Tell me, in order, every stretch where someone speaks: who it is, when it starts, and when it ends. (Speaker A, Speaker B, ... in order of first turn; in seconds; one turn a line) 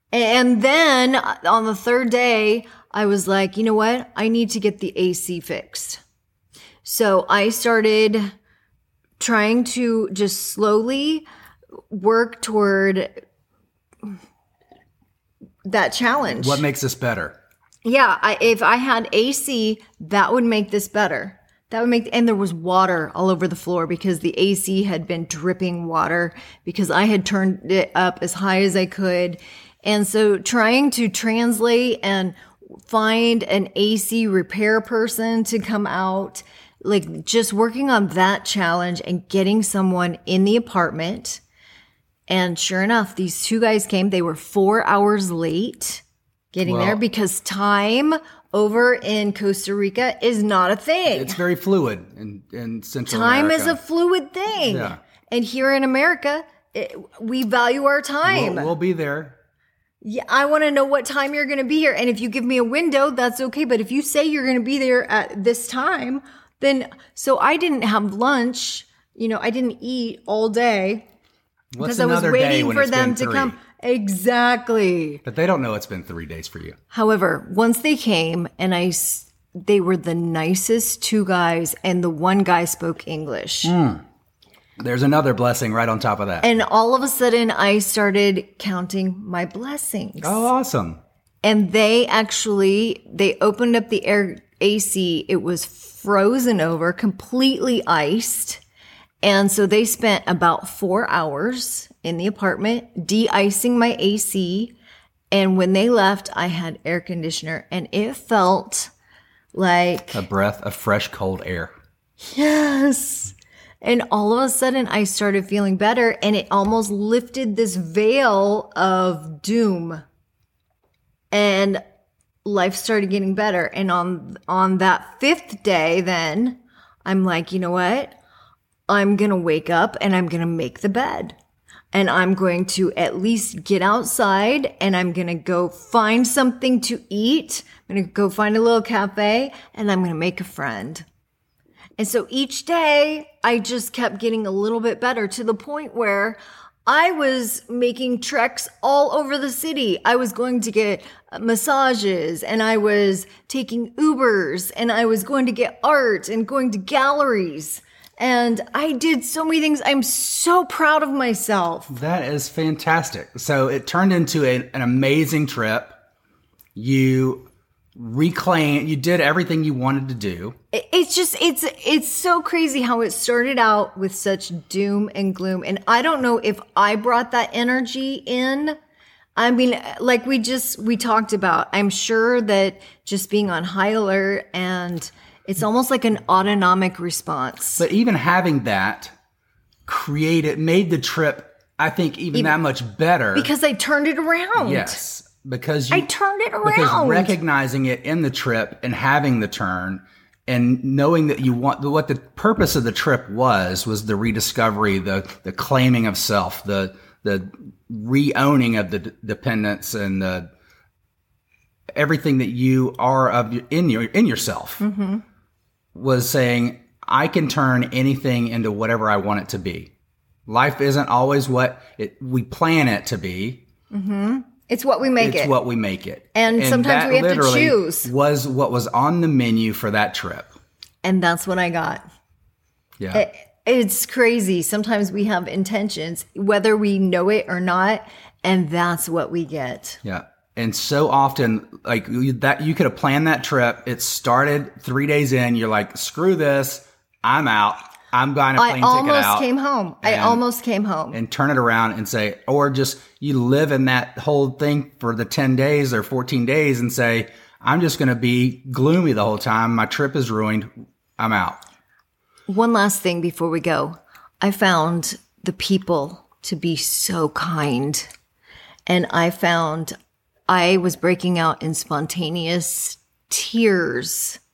Speaker A: 0.1-6.0
Speaker A: 6.8-8.3
Speaker A: 9.2-11.3
Speaker A: 11.9-13.2
Speaker A: 15.7-16.6
Speaker B: 16.3-17.4
Speaker A: 17.8-41.4
Speaker A: 42.3-51.4
Speaker B: 46.6-47.0
Speaker B: 51.1-53.8
Speaker A: 53.1-58.7
Speaker B: 54.6-55.0
Speaker B: 58.2-59.4
Speaker A: 60.0-71.1
Speaker B: 71.7-73.6
Speaker A: 71.8-75.2
Speaker B: 75.2-76.8
Speaker A: 76.9-83.8
Speaker B: 83.6-84.0
Speaker B: 84.8-86.5
Speaker A: 86.4-90.5
Speaker B: 90.2-91.0
Speaker A: 91.4-98.6
Speaker A: 99.2-104.8
Speaker A: 105.3-108.9
Speaker A: 109.5-110.2
Speaker B: 110.1-111.7
Speaker A: 112.3-120.0
Speaker A: 121.3-121.8
Speaker A: 122.5-128.2
Speaker A: 128.9-131.4
Speaker A: 131.9-141.1
Speaker A: 142.0-161.9
Speaker B: 161.9-166.0
Speaker B: 166.8-170.6
Speaker A: 170.7-178.8
Speaker A: 179.4-187.9
Speaker B: 187.8-189.1
Speaker B: 189.9-193.5
Speaker A: 193.3-195.0
Speaker B: 194.6-196.1
Speaker A: 195.9-197.4
Speaker B: 196.7-210.5
Speaker B: 211.9-214.8
Speaker A: 214.8-215.2
Speaker B: 215.9-219.9
Speaker B: 220.5-223.6
Speaker A: 223.9-225.5
Speaker B: 225.2-230.5
Speaker A: 226.3-228.1
Speaker A: 231.0-232.0
Speaker B: 233.0-233.2
Speaker A: 233.1-240.0
Speaker B: 240.0-249.4
Speaker A: 248.6-251.2
Speaker B: 250.0-250.4
Speaker B: 251.1-261.6
Speaker A: 262.5-268.1
Speaker A: 268.9-269.9
Speaker A: 270.5-274.4